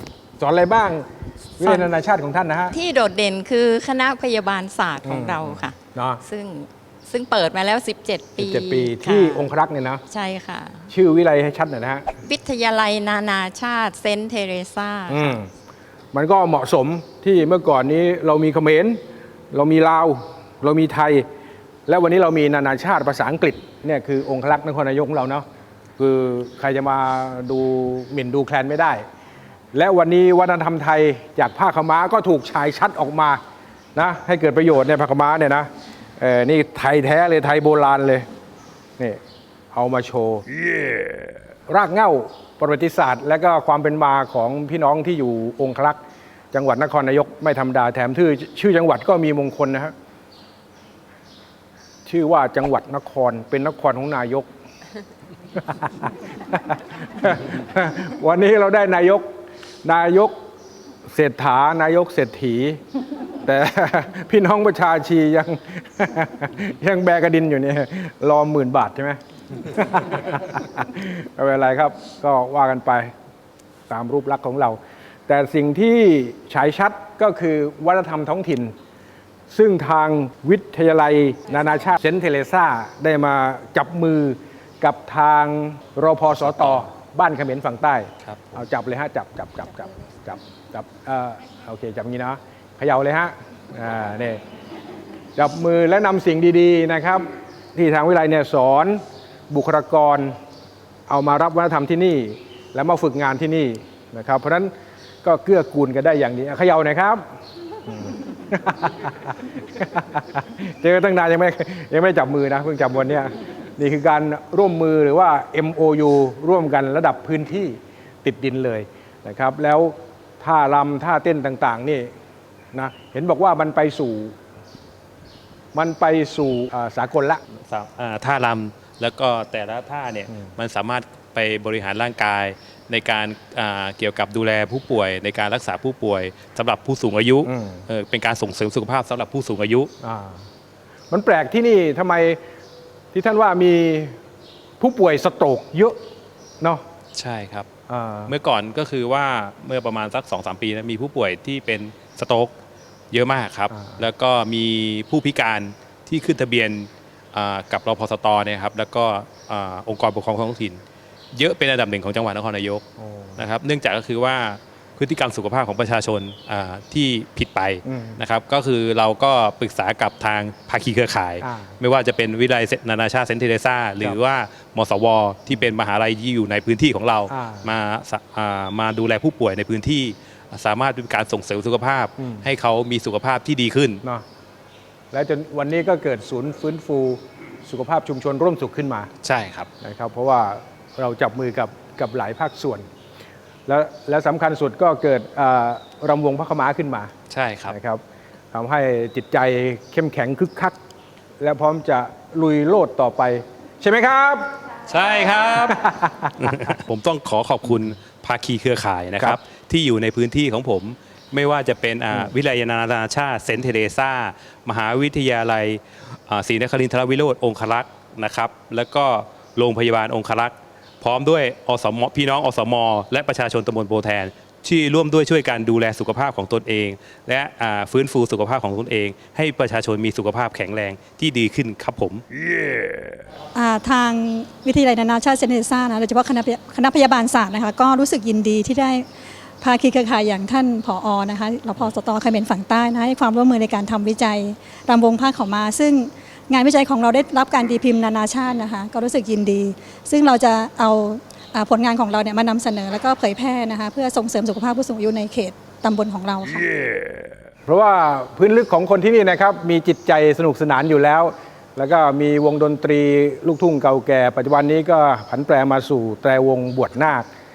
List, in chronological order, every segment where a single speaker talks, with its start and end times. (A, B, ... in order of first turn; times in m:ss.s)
0:00.4-0:01.1 A
0:01.6-0:02.8 A
0:01.6-0:01.9 B
0:02.7-0:09.5 B
0:05.0-0:06.2 A
0:08.4-0:10.0 A
0:10.1-0:10.9 B
0:10.9-0:12.1 A
0:12.2-0:15.3 B
0:15.1-0:15.5 A
0:16.1-0:19.0 A
0:19.5-0:21.3 A
0:21.9-0:25.4 A
0:26.0-0:29.0 A
0:29.7-0:33.4 A
0:34.0-0:38.3 A
0:39.7-0:40.4 A
0:41.7-0:46.0 A
0:46.5-0:49.9 A
0:52.1-0:54.5 A
0:55.7-0:59.3 A
0:59.8-1:00.4 A
1:01.1-1:02.8 A
1:03.4-1:13.1 A
1:13.9-1:18.7 A
1:19.5-1:34.4 A
1:26.4-1:26.8 C
1:28.2-1:28.6 C
1:35.4-1:40.4 A
1:41.1-1:44.7 A
1:45.2-1:47.2 A
1:47.9-2:02.1 A
2:02.7-2:04.4 A
2:05.7-2:07.4 A
2:07.7-2:19.9 C
2:17.4-2:17.8 A
2:20.0-2:20.4 A
2:21.1-2:22.4 A
2:23.1-2:24.2 A
2:24.8-2:26.0 A
2:27.2-2:27.7 C
2:27.9-2:28.4 A
2:28.3-2:32.5 C
2:33.1-2:40.8 C
2:33.7-2:34.0 A
2:41.3-2:42.8 C
2:43.0-2:43.4 A
2:43.4-3:04.0 C
2:47.9-2:48.2 A
2:51.4-2:51.8 A
2:57.3-2:57.7 A
3:05.1-3:09.1 A
3:09.2-3:09.7 C
3:09.8-3:12.9 A
3:13.7-3:17.1 A
3:17.3-3:17.8 C
3:17.7-3:18.0 A
3:18.5-3:20.8 A
3:21.4-3:24.5 A
3:24.9-3:25.8 C
3:25.6-3:26.5 A
3:26.4-3:52.2 C
3:53.6-3:59.1 D
3:59.6-4:16.7 D
4:17.7-4:27.3 A